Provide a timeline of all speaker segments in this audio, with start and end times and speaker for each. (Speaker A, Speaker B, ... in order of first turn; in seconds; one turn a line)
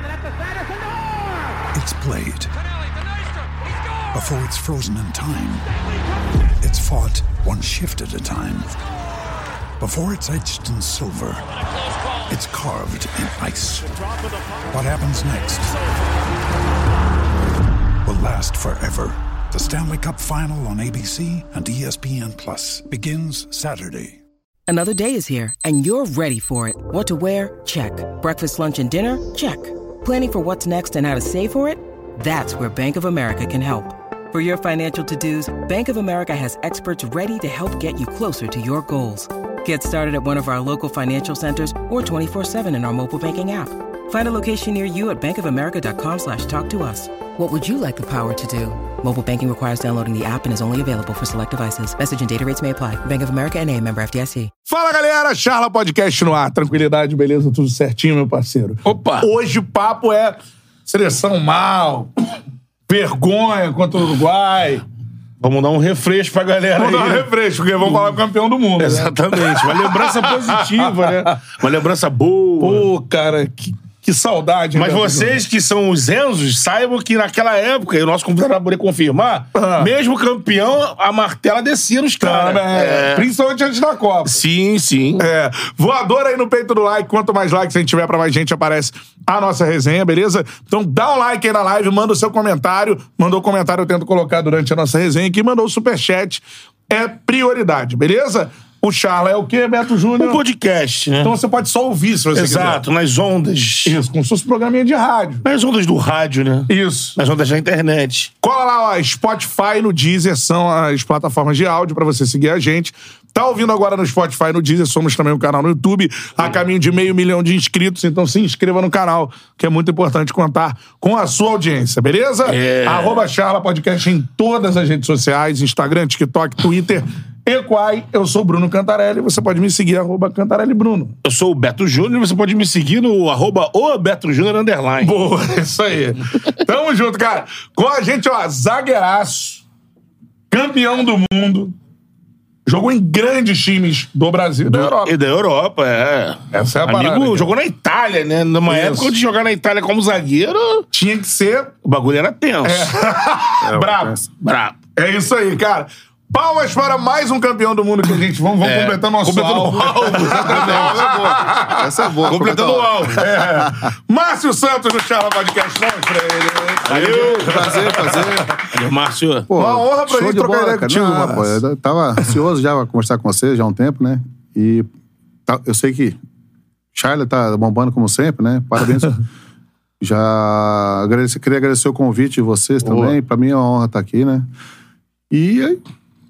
Speaker A: 1.7-2.5
Speaker A: 4.1-5.7
Speaker A: 6.6-8.7
Speaker A: 9.8-11.4
Speaker A: 12.3-13.9
Speaker A: 14.7-15.8
Speaker A: 18.0-24.2
Speaker B: 24.7-54.5
Speaker C: 54.7-62.1
Speaker D: 58.8-59.3
Speaker C: 62.9-64.8
Speaker D: 65.4-67.3
Speaker C: 66.8-71.4
Speaker D: 67.8-68.2
Speaker D: 68.8-72.9
Speaker C: 72.6-75.4
Speaker D: 74.7-83.3
Speaker C: 79.5-79.9
Speaker C: 82.2-84.4
Speaker D: 84.2-85.3
Speaker C: 85.2-100.4
Speaker D: 100.2-101.3
Speaker C: 101.2-102.8
Speaker D: 102.3-104.0
Speaker C: 103.8-105.4
Speaker D: 105.4-108.3
Speaker C: 106.7-107.2
Speaker C: 108.4-131.1
Speaker D: 122.4-123.3
Speaker D: 131.2-135.2
Speaker C: 135.0-139.6
Speaker C: 140.5-141.7
Speaker C: 142.7-145.1
Speaker D: 144.7-150.8
Speaker C: 146.5-147.5
Speaker C: 148.7-149.1
Speaker C: 150.9-151.7
Speaker D: 151.8-152.9
Speaker C: 152.6-154.1
Speaker E: 153.6-154.3
Speaker D: 154.4-154.8
Speaker C: 154.9-162.5
Speaker D: 158.6-161.0
Speaker E: 160.2-163.8
Speaker D: 162.2-163.4
Speaker C: 163.2-168.6
Speaker D: 166.8-167.7
Speaker E: 166.9-168.5
Speaker D: 168.7-169.5
Speaker E: 169.5-174.9
Speaker C: 169.6-171.6
Speaker E: 175.5-176.2
Speaker E: 176.9-179.2
Speaker E: 180.0-184.5
Speaker D: 182.8-183.2
Speaker E: 185.3-185.8